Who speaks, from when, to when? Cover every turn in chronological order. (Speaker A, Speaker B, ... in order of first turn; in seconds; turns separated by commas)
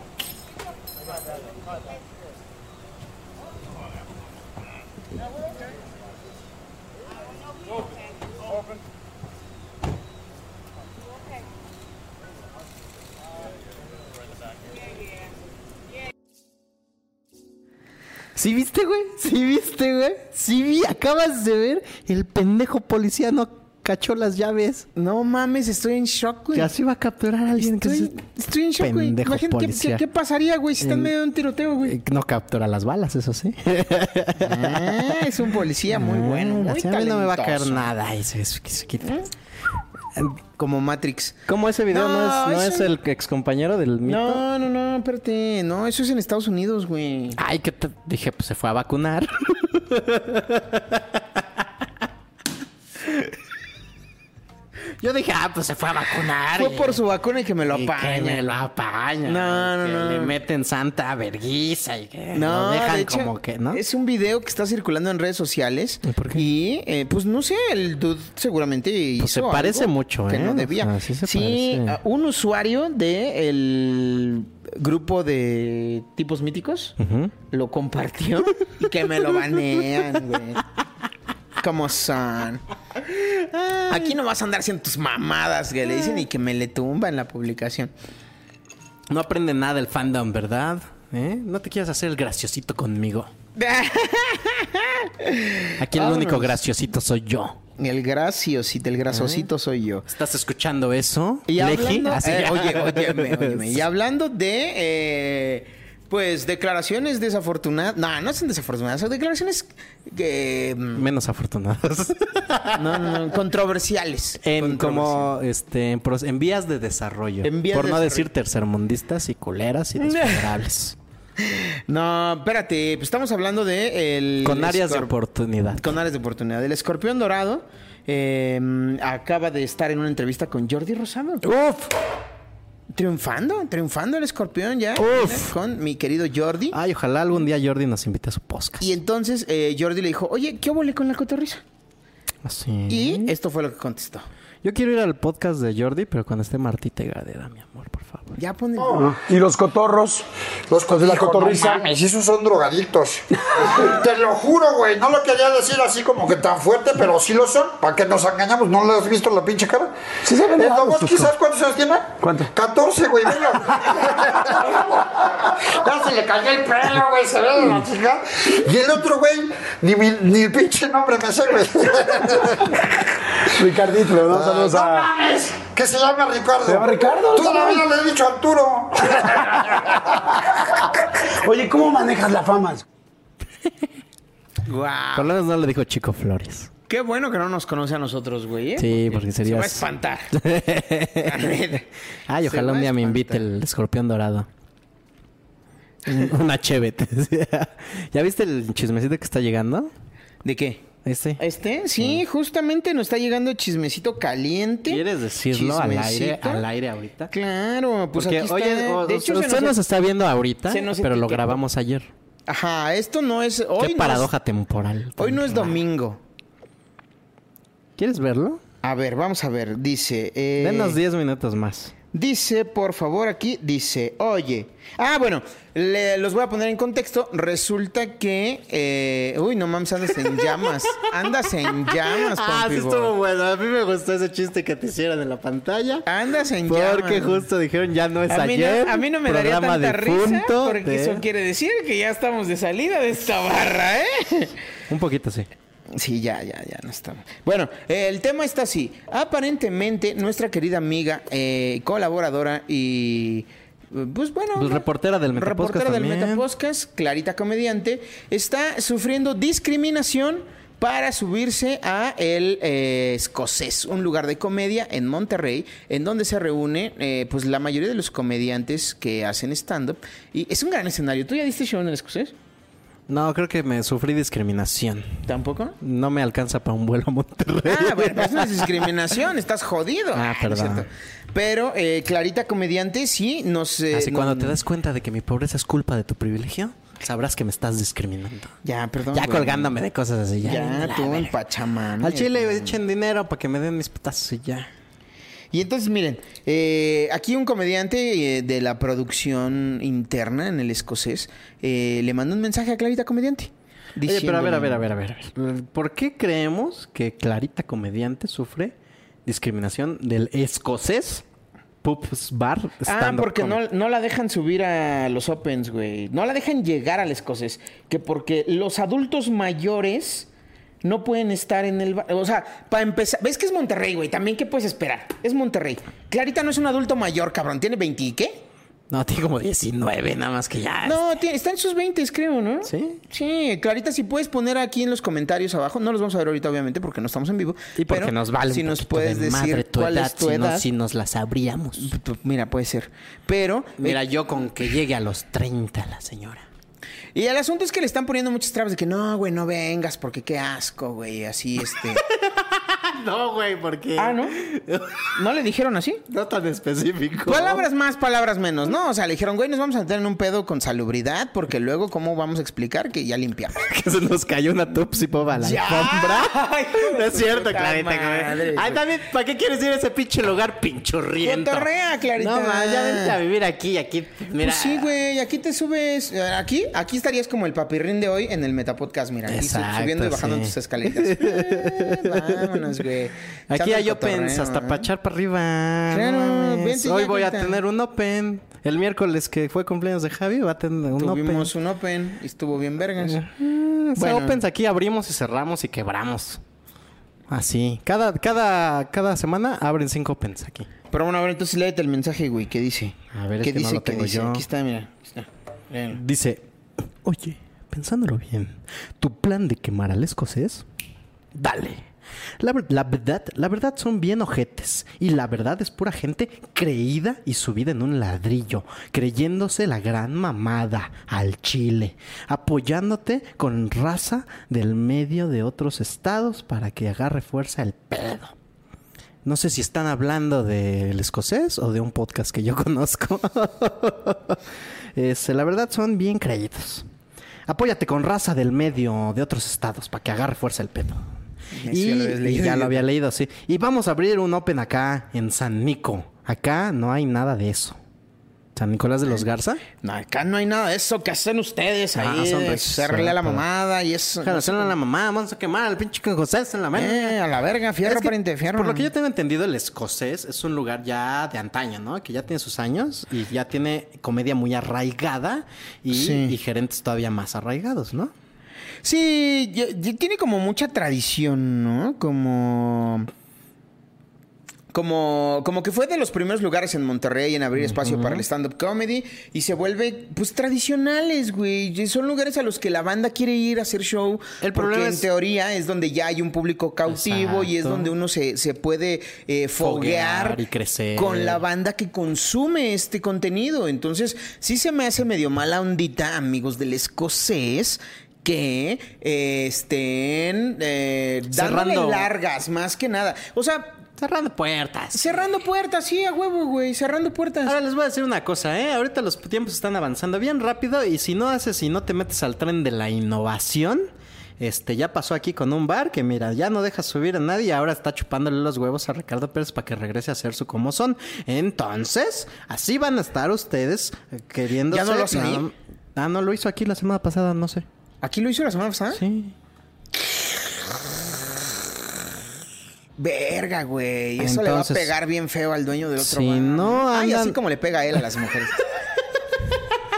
Speaker A: 18.4-24.9, Speaker B: 24.9-26.7, Speaker A: 26.5-28.2, Speaker B: 27.6-32.0, Speaker A: 28.8-30.0, Speaker A: 30.8-31.1, Speaker A: 31.8-35.2, Speaker B: 34.4-37.9, Speaker A: 35.9-39.2, Speaker B: 39.0-39.3, Speaker B: 40.6-42.9, Speaker A: 41.5-44.4, Speaker B: 44.0-47.4, Speaker A: 47.4-51.6, Speaker A: 55.0-57.0, Speaker B: 56.5-58.5, Speaker A: 57.7-63.8, Speaker B: 59.2-60.4, Speaker B: 62.3-77.0, Speaker A: 66.0-66.5, Speaker A: 69.2-72.0, Speaker A: 77.0-77.3, Speaker B: 77.5-80.6, Speaker B: 81.6-82.6, Speaker A: 83.4-84.1, Speaker B: 83.9-87.9, Speaker A: 89.1-93.3, Speaker B: 93.5-96.6, Speaker A: 95.8-97.6, Speaker B: 97.8-100.1, Speaker A: 99.1-99.5, Speaker A: 100.1-103.8, Speaker B: 101.5-111.1, Speaker A: 111.0-113.2, Speaker B: 112.8-115.3, Speaker A: 114.4-121.0, Speaker B: 117.4-118.3, Speaker B: 120.0-120.5, Speaker B: 121.4-125.1, Speaker A: 124.4-125.9, Speaker B: 125.8-131.4, Speaker A: 131.4-131.9, Speaker B: 132.9-136.8, Speaker A: 135.0-135.5, Speaker A: 136.7-138.9, Speaker B: 138.8-141.6, Speaker A: 142.4-143.3, Speaker B: 142.9-144.3, Speaker A: 144.6-148.4, Speaker B: 148.4-149.1, Speaker C: 148.9-150.3, Speaker D: 150.7-159.9, Speaker C: 150.9-151.9, Speaker C: 153.6-154.0, Speaker C: 160.2-161.3, Speaker D: 160.6-172.7, Speaker C: 162.2-162.5, Speaker C: 173.6-175.1, Speaker D: 174.3-179.5, Speaker C: 176.7-177.8, Speaker C: 181.2-182.8, Speaker B: 184.7-185.3, Speaker A: 185.2-186.7, Speaker B: 186.9-190.3, Speaker A: 188.8-191.6, Speaker B: 191.2-191.9, Speaker A: 192.3-194.5, Speaker B: 192.4-193.5, Speaker A: 196.1-199.9, Speaker B: 200.4-200.9, Speaker A: 201.1-201.4, Speaker B: 201.4-206.7, Speaker A: 204.9-207.3, Speaker B: 207.3-209.8, Speaker A: 208.2-212.1, Speaker B: 210.7-211.6, Speaker B: 212.5-214.3, Speaker A: 213.8-215.8, Speaker B: 215.2-216.2, Speaker A: 218.0-218.6, Speaker B: 218.8-221.0, Speaker A: 220.6-221.9, Speaker B: 222.1-233.1, Speaker A: 230.3-236.1, Speaker B: 236.1-237.5, Speaker A: 236.7-241.2, Speaker B: 238.3-244.6, Speaker A: 244.9-245.5, Speaker B: 245.9-272.4, Speaker A: 254.6-256.4, Speaker A: 273.1-275.3, Speaker B: 275.3-275.8, Speaker A: 275.8-278.9, Speaker B: 277.7-284.6, Speaker A: 280.1-280.9, Speaker A: 283.9-288.6, Speaker B: 288.6-289.8, Speaker A: 289.1-291.4, Speaker B: 290.4-292.8, Speaker A: 292.0-294.7, Speaker B: 295.5-304.9, Speaker A: 304.1-311.2, Speaker A: 311.8-313.6, Speaker B: 312.9-320.3, Speaker B: 320.8-328.4, Speaker A: 328.9-331.0, Speaker B: 330.8-340.7, Speaker A: 332.6-333.0, Speaker A: 337.8-341.9, Speaker B: 341.8-344.0, Speaker A: 343.8-346.5, Speaker B: 347.1-352.0, Speaker A: 352.2-355.0, Speaker B: 354.0-354.4, Speaker B: 355.1-356.0, Speaker A: 356.1-357.6, Speaker B: 357.3-363.6, Speaker A: 363.6-374.9, Speaker B: 365.4-368.8, Speaker B: 371.2-373.2, Speaker B: 374.4-384.9, Speaker A: 379.3-382.7, Speaker A: 383.5-391.5, Speaker B: 385.9-387.6, Speaker B: 391.0-393.2, Speaker A: 393.0-396.4, Speaker B: 394.0-394.4, Speaker A: 397.3-400.7, Speaker B: 400.9-406.0, Speaker A: 403.1-404.4, Speaker A: 405.9-406.4, Speaker A: 407.0-410.6, Speaker A: 411.4-411.9, Speaker A: 412.4-428.3, Speaker A: 429.2-434.4, Speaker A: 435.0-436.9, Speaker A: 437.5-441.1, Speaker B: 441.5-442.9, Speaker A: 441.7-447.8, Speaker A: 448.6-449.6, Speaker B: 449.8-454.8, Speaker A: 451.9-453.4, Speaker A: 454.2-457.2, Speaker B: 456.7-458.9, Speaker A: 457.8-468.1, Speaker B: 465.9-466.4, Speaker B: 468.8-473.1, Speaker B: 474.7-490.4, Speaker A: 477.6-478.2, Speaker A: 484.4-485.1, Speaker A: 486.9-487.9, Speaker A: 489.6-491.4, Speaker B: 491.0-503.8, Speaker A: 501.3-502.1, Speaker A: 504.0-505.2, Speaker B: 504.9-507.6, Speaker A: 507.4-527.7, Speaker B: 524.7-525.5, Speaker B: 528.0-529.0, Speaker A: 528.9-529.4, Speaker B: 533.0-538.6, Speaker A: 534.2-534.9, Speaker A: 536.0-537.4